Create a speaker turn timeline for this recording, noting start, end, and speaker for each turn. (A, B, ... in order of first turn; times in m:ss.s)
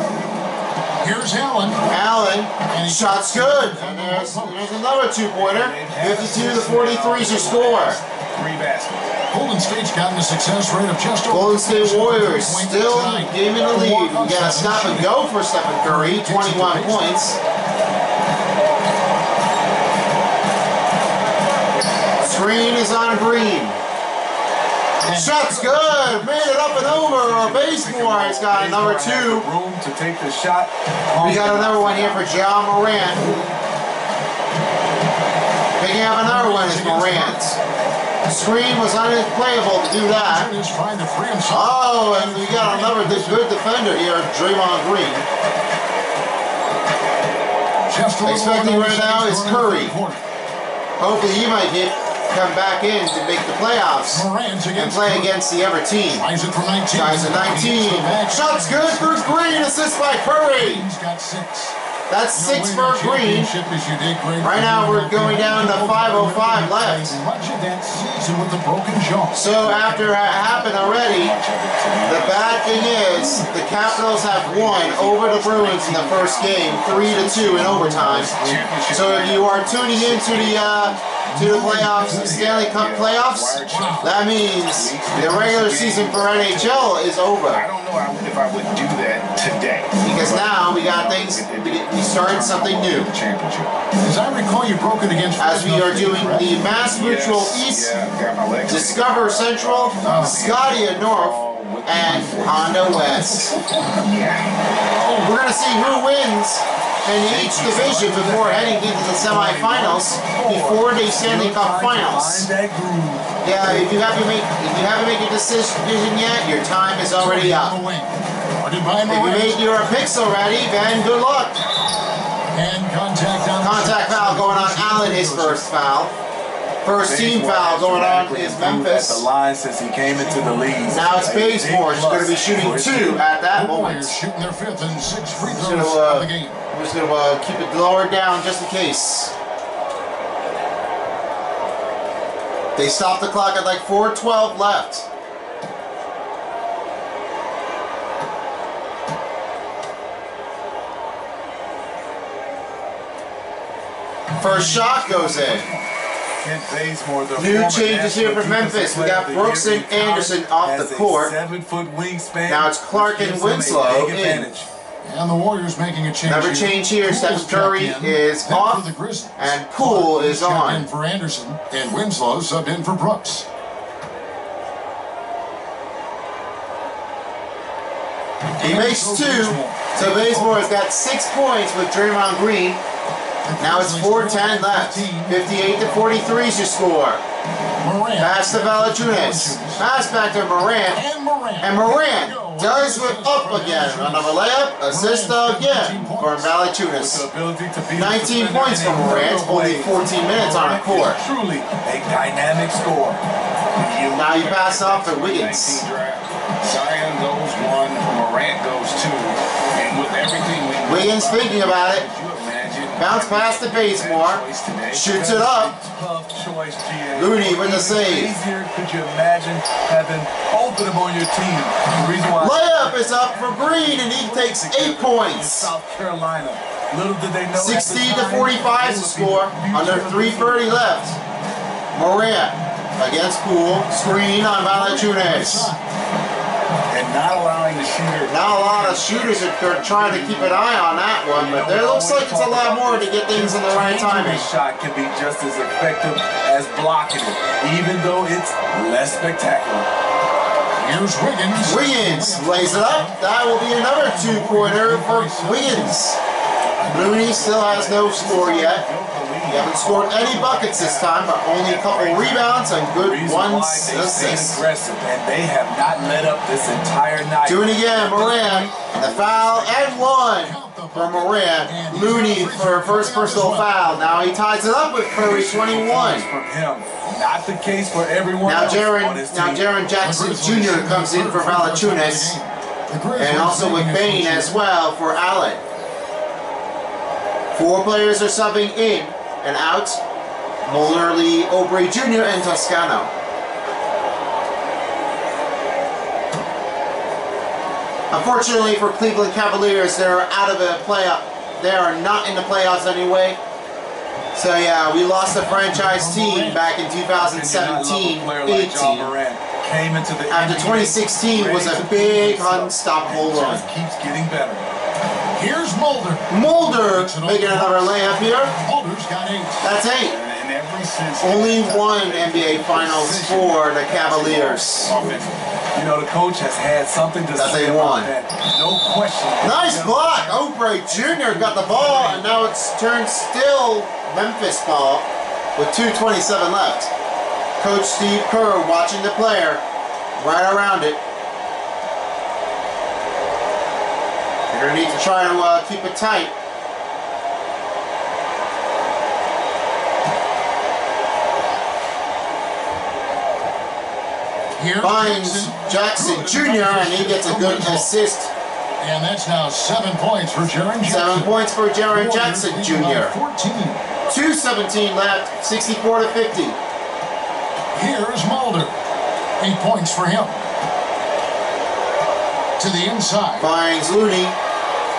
0:01.0-0:01.9 A
0:01.9-0:08.0 B
0:02.7-0:04.8 A
0:05.3-0:09.1 C
0:09.3-0:15.2 A
0:11.3-0:17.4 B
0:15.8-0:17.2 A
0:22.2-0:23.8 B
0:25.0-0:26.4 A
0:25.1-0:29.4 B
0:26.7-0:32.3 D
0:31.2-0:33.3 B
0:35.8-0:37.6 B
0:36.2-0:37.4 A
0:38.2-0:40.5 B
0:40.1-0:43.4 A
0:41.5-0:45.3 B
0:47.8-0:50.2 A
0:48.2-0:49.9 B
0:51.0-0:56.2 B
0:54.1-0:55.3 A
0:56.1-0:59.9 A
0:56.9-1:00.8 B
1:00.5-1:01.8 A
1:02.1-1:03.5 B
1:02.3-1:09.5 A
1:04.4-1:07.2 B
1:09.3-1:11.4 B
1:09.5-1:33.7 C
1:12.0-1:27.6 B
1:17.5-1:18.7 A
1:21.2-1:22.6 A
1:23.6-1:24.2 A
1:30.0-1:33.1 B
1:34.0-1:36.7 A
1:35.4-1:37.9 B
1:36.8-1:43.3 C
1:38.6-1:43.5 B
1:40.0-1:40.6 A
1:42.9-1:44.1 A
1:43.8-1:45.2 C
1:45.2-1:52.5 B
1:47.2-1:53.3 D
1:53.4-1:57.8 B
1:57.2-1:59.7 A
1:59.1-2:01.6 B
2:02.5-2:05.6 A
2:03.6-2:06.2 B
2:06.8-2:09.2 B
2:07.0-2:13.2 D
2:10.9-2:14.2 B
2:13.5-2:16.6 A
2:15.4-2:19.3 B
2:22.8-2:25.0 B
2:34.4-2:35.7 B
2:34.4-2:35.9 A
2:36.4-2:44.7 D
2:37.4-2:41.3 B
2:42.5-2:44.4 B
2:45.0-2:53.4 A
2:46.2-2:48.8 B
2:49.4-2:50.9 B
2:58.6-3:00.8 A
2:58.6-3:02.8 B
3:03.4-3:05.7 A
3:03.6-3:07.2 B
3:07.8-3:09.8 A
3:08.2-3:11.0 B
3:10.9-3:16.6 A
3:11.6-3:17.2 B
3:16.9-3:23.2 D
3:17.9-3:21.2 B
3:23.7-3:35.2 C
3:24.1-3:25.8 B
3:30.8-3:32.1 B
3:33.0-3:35.7 B
3:35.1-3:50.8 D
3:37.1-3:38.3 B
3:42.4-3:45.7 B
3:47.5-3:51.2 B
3:51.9-3:55.7 B
3:54.7-3:55.9 A
3:56.9-4:00.6 C
3:58.2-4:04.5 B
4:01.3-4:09.9 D
4:10.8-4:13.3 A
4:11.6-4:16.2 B
4:13.9-4:16.0 A
4:16.6-4:22.5 C
4:16.9-4:18.8 B
4:19.5-4:24.6 B
4:22.9-4:30.1 D
4:27.4-4:36.3 B
4:30.2-4:33.9 A
4:35.2-4:39.7 D
4:38.4-4:42.3 B
4:40.0-4:44.6 A
4:43.2-4:45.6 B
4:47.5-4:50.0 B
4:50.6-4:53.1 B
4:58.1-5:03.4 B
5:04.3-5:09.1 B
5:05.4-5:06.6 A
5:07.2-5:14.6 D
5:10.3-5:13.6 B
5:15.3-5:19.6 A
5:16.3-5:18.5 B
5:19.6-5:20.2 B
5:20.0-5:23.3 C
5:21.2-5:24.9 B
5:23.0-5:24.5 D
5:24.2-5:25.4 C
5:25.7-5:32.5 D
5:27.4-5:28.1 B
5:29.4-5:36.9 B
5:37.6-5:39.6 B
5:40.2-5:41.0 B
5:44.5-5:46.3 B
5:54.6-5:57.9 A
5:54.8-5:58.3 B
5:58.8-6:01.3 A
6:00.8-6:03.1 B
6:01.9-6:03.8 A
6:04.1-6:06.6 B
6:07.7-6:08.7 A
6:09.4-6:10.5 A
6:12.6-6:13.5 A
6:13.4-6:14.4 B